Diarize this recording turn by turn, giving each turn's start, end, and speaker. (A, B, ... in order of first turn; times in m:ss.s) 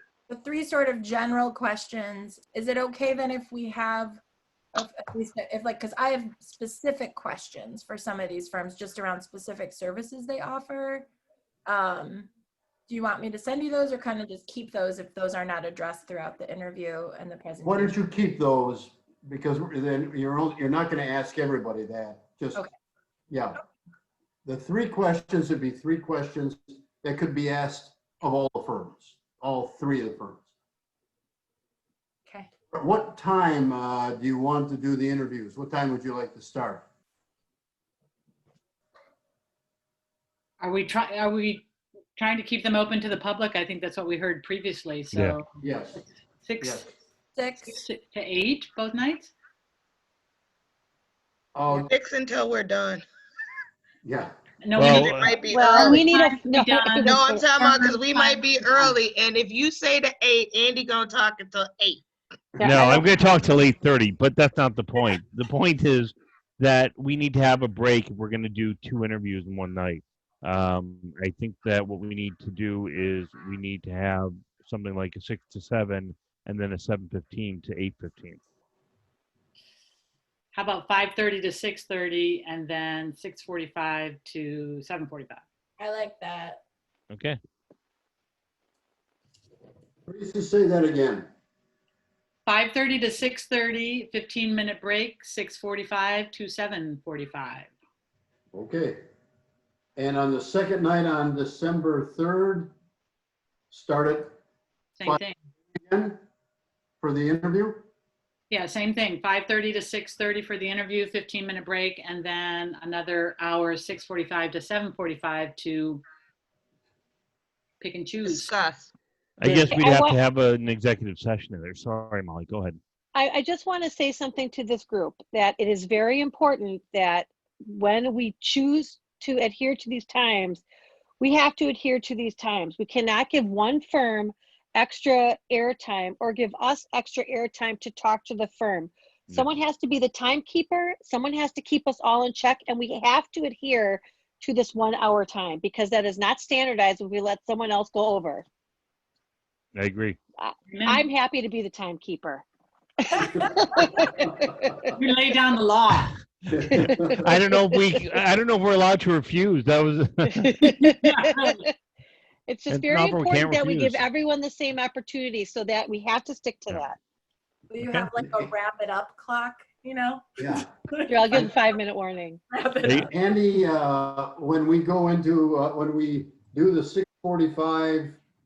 0:00.3-0:04.2 A
0:04.7-0:11.1 A
0:11.6-0:12.3 A
0:12.9-0:18.0 A
0:17.6-0:22.6 B
0:23.3-0:23.6 B
0:24.4-0:30.5 B
0:32.7-0:36.8 B
0:40.6-0:46.8 C
0:45.1-0:45.4 D
0:45.6-0:46.0 B
0:47.3-0:47.8 A
0:47.6-0:49.3 C
0:51.5-0:51.9 B
0:51.7-0:53.0 E
0:54.0-0:54.3 B
0:54.6-0:58.8 C
0:54.8-0:55.3 D
0:54.8-0:56.1 E
0:55.4-0:57.5 F
0:57.0-1:02.0 E
1:02.6-1:03.1 F
1:02.6-1:18.4 D
1:20.5-1:25.4 C
1:25.8-1:26.6 A
1:27.1-1:27.4 D
1:30.0-1:31.3 B
1:32.4-1:37.7 C
1:38.5-1:39.0 B
1:40.0-1:42.7 B
1:43.7-1:44.4 B
1:45.0-1:45.4 C
1:45.7-1:46.2 B
1:47.0-1:47.8 B
1:48.5-1:56.0 C
1:57.8-1:58.5 C
1:58.2-1:58.9 E
1:59.4-2:02.8 D
1:59.6-2:00.2 F
2:03.1-2:10.6 F
2:11.2-2:28.4 F
2:29.7-2:30.2 D
2:30.4-2:32.4 F
2:30.7-2:31.1 C
2:33.0-2:34.9 F
2:34.8-2:36.1 C
2:36.5-2:37.3 B
2:36.7-2:37.2 F
2:36.8-2:40.5 D
2:37.7-2:38.0 F
2:40.3-2:41.7 F
2:40.6-2:41.7 C
2:42.5-2:47.0 F
2:42.7-2:44.0 D
2:47.7-2:51.6 A
2:50.4-2:50.7 B
2:51.1-2:52.4 F
2:52.5-2:53.1 A
2:52.8-2:53.1 D
2:53.0-2:58.2 B